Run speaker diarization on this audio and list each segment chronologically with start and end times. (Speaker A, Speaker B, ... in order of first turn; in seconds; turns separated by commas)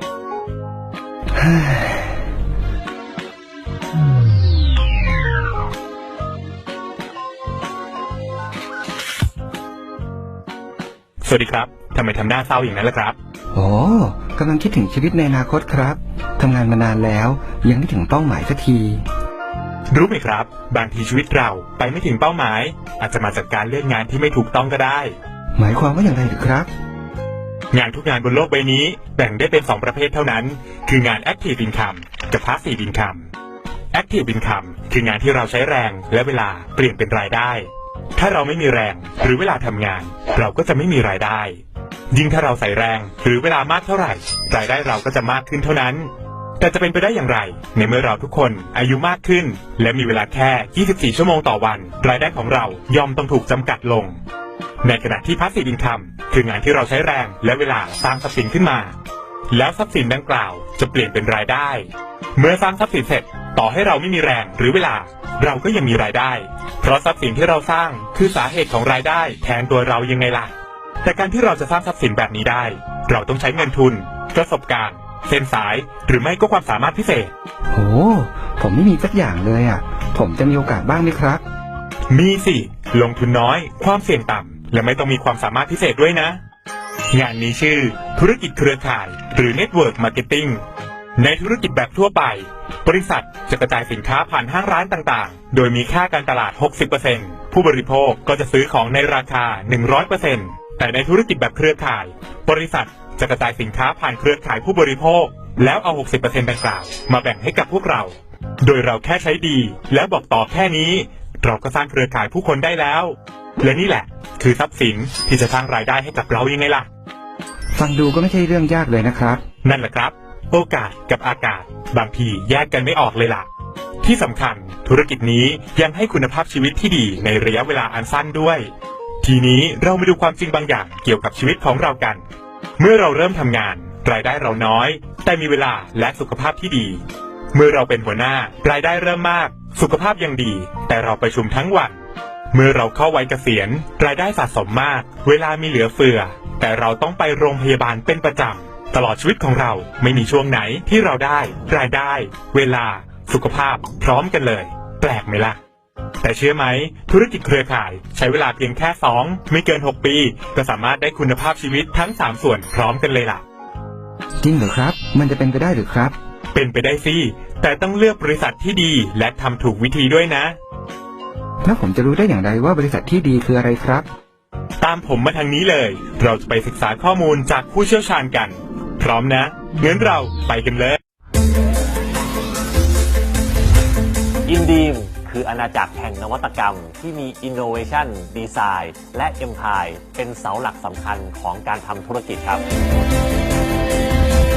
Speaker A: 1.4-2.3, Speaker B: 11.2-13.2, Speaker A: 13.5-19.1, Speaker B: 19.9-25.2, Speaker A: 25.6-26.7, Speaker B: 27.7-33.3, Speaker B: 33.9-41.6, Speaker B: 42.1-54.2, Speaker B: 54.8-58.9, Speaker B: 59.5-77.3, Speaker A: 77.7-81.4, Speaker B: 82.1-86.4, Speaker B: 87.1-90.6, Speaker B: 91.2-116.9, Speaker A: 117.8-119.4, Speaker B: 119.6-123.5, Speaker B: 124.0-128.7, Speaker B: 129.2-132.2, Speaker B: 132.8-137.0, Speaker B: 137.5-142.0, Speaker B: 142.5-155.6, Speaker B: 156.2-163.4, Speaker A: 164.4-166.2, Speaker B: 166.5-170.6, Speaker A: 171.6-174.1, Speaker B: 174.8-181.0, Speaker C: 184.5-192.6